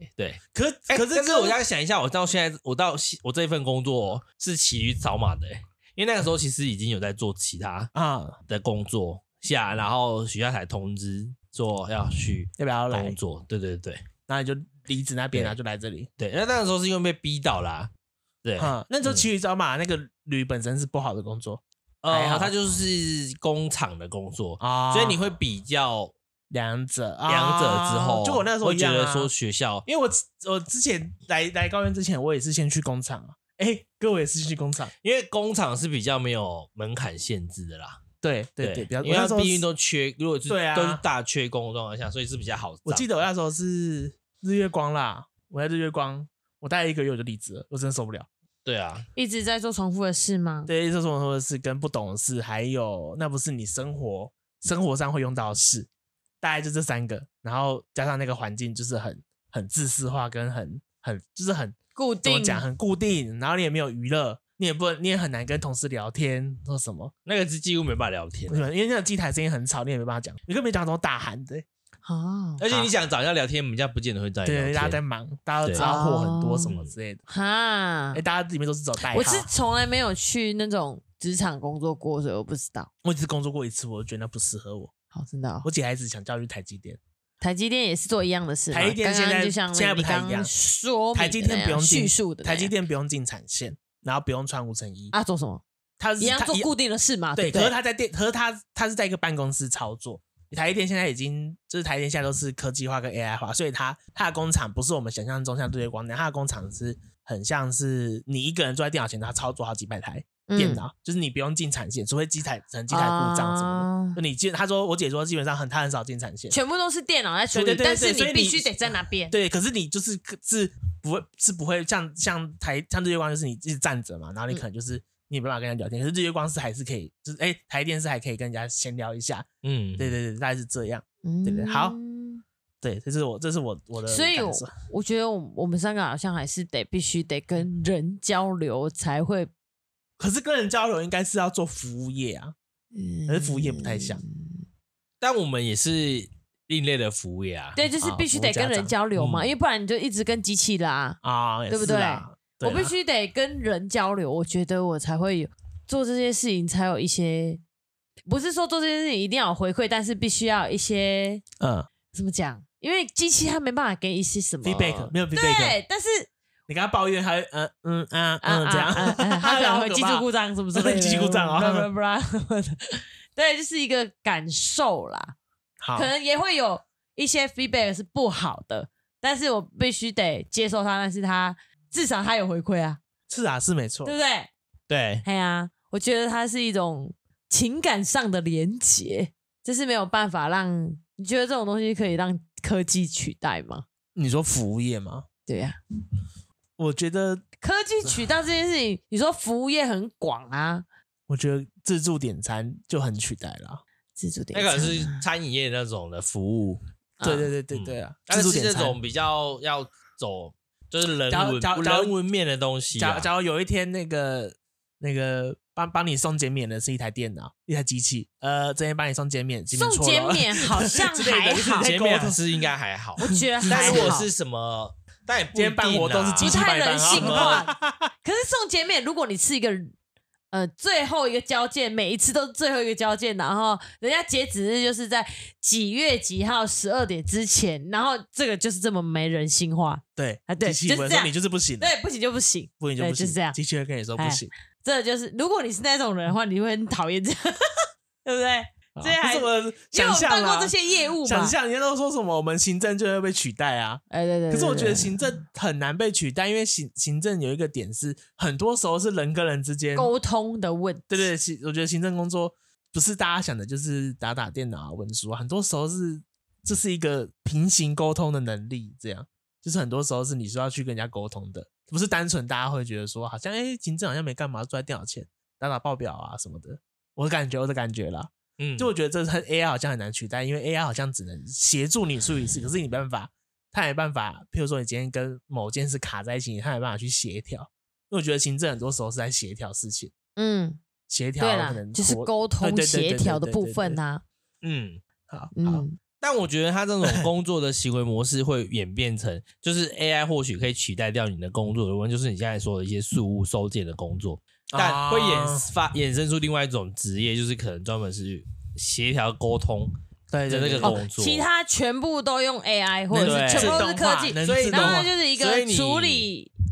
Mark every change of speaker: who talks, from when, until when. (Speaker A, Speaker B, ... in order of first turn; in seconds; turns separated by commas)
Speaker A: 0.2-7.9, Speaker B: 0.5-1.6, Speaker B: 7.9-8.4, Speaker A: 8.5-14.1, Speaker B: 12.6-13.2, Speaker B: 14.3-16.1, Speaker A: 16.2-17.9, Speaker A: 18.4-19.3, Speaker B: 18.6-22.5, Speaker A: 22.0-26.1, Speaker B: 24.6-25.2, Speaker B: 26.5-29.3, Speaker A: 27.3-29.9, Speaker B: 29.9-34.9, Speaker A: 35.0-38.0, Speaker B: 38.2-39.6, Speaker A: 38.6-43.1, Speaker B: 40.5-41.0, Speaker B: 42.9-48.3, Speaker A: 48.6-49.1, Speaker C: 49.1-50.7, Speaker B: 50.7-55.9, Speaker B: 56.4-67.1, Speaker C: 62.0-62.6, Speaker A: 67.3-68.7, Speaker B: 68.5-71.7, Speaker C: 72.0-72.6, Speaker A: 72.6-75.0, Speaker B: 72.7-72.9, Speaker B: 74.5-77.2, Speaker C: 75.8-76.7, Speaker A: 76.7-76.9, Speaker C: 77.3-78.2, Speaker B: 78.1-79.5, Speaker C: 79.1-82.9, Speaker B: 83.0-84.9, Speaker C: 85.1-85.7, Speaker B: 85.6-87.0, Speaker C: 87.4-92.7, Speaker B: 88.7-90.5, Speaker B: 91.1-95.1, Speaker C: 95.1-95.6, Speaker B: 96.0-96.7, Speaker C: 96.2-97.8, Speaker B: 97.4-116.6, Speaker C: 110.5-110.8, Speaker C: 112.9-114.2, Speaker C: 116.5-119.3, Speaker B: 117.5-129.5, Speaker A: 129.6-130.1, Speaker B: 130.0-132.0, Speaker C: 131.2-132.4, Speaker B: 132.8-134.7, Speaker C: 134.1-139.5, Speaker B: 140.2-142.6, Speaker C: 142.9-144.6, Speaker B: 143.3-144.2, Speaker A: 145.2-147.8, Speaker C: 147.8-151.2, Speaker B: 148.0-148.9, Speaker A: 149.2-149.5, Speaker B: 151.2-152.9, Speaker C: 151.7-157.6, Speaker C: 158.3-161.4, Speaker B: 161.6-161.9, Speaker C: 162.1-166.3, Speaker B: 164.6-165.8, Speaker B: 166.7-171.9, Speaker C: 168.4-175.3, Speaker B: 175.8-176.1, Speaker C: 175.9-183.0, Speaker B: 183.3-184.2, Speaker C: 184.1-184.5, Speaker A: 184.9-185.2, Speaker C: 185.2-193.8, Speaker B: 194.2-195.3, Speaker C: 195.5-195.8, Speaker B: 196.8-197.4, Speaker C: 197.6-200.8, Speaker B: 201.3-203.8, Speaker C: 204.2-205.2, Speaker A: 204.5-206.8, Speaker C: 207.2-207.5, Speaker B: 207.2-209.0, Speaker A: 207.7-213.3, Speaker B: 211.3-212.2, Speaker B: 213.0-222.4, Speaker C: 219.7-221.9, Speaker A: 221.8-227.7, Speaker C: 223.2-224.3, Speaker B: 223.3-224.2, Speaker B: 225.5-228.1, Speaker C: 226.4-227.7, Speaker C: 228.2-229.9, Speaker C: 230.5-243.6, Speaker B: 240.2-241.9, Speaker B: 242.8-244.5, Speaker C: 244.2-251.6, Speaker B: 249.0-260.1, Speaker C: 254.1-255.3, Speaker C: 259.9-261.3, Speaker B: 261.1-290.1, Speaker A: 278.6-278.9, Speaker C: 290.4-290.8, Speaker B: 291.1-294.0, Speaker C: 291.4-294.2, Speaker A: 294.6-295.0, Speaker B: 295.3-295.9, Speaker C: 295.6-296.0, Speaker A: 296.2-309.9, Speaker B: 297.0-297.3, Speaker B: 304.7-305.7, Speaker B: 310.3-311.0, Speaker A: 310.5-311.5, Speaker C: 310.8-316.5, Speaker B: 313.1-315.1, Speaker A: 313.2-313.9, Speaker A: 314.4-316.3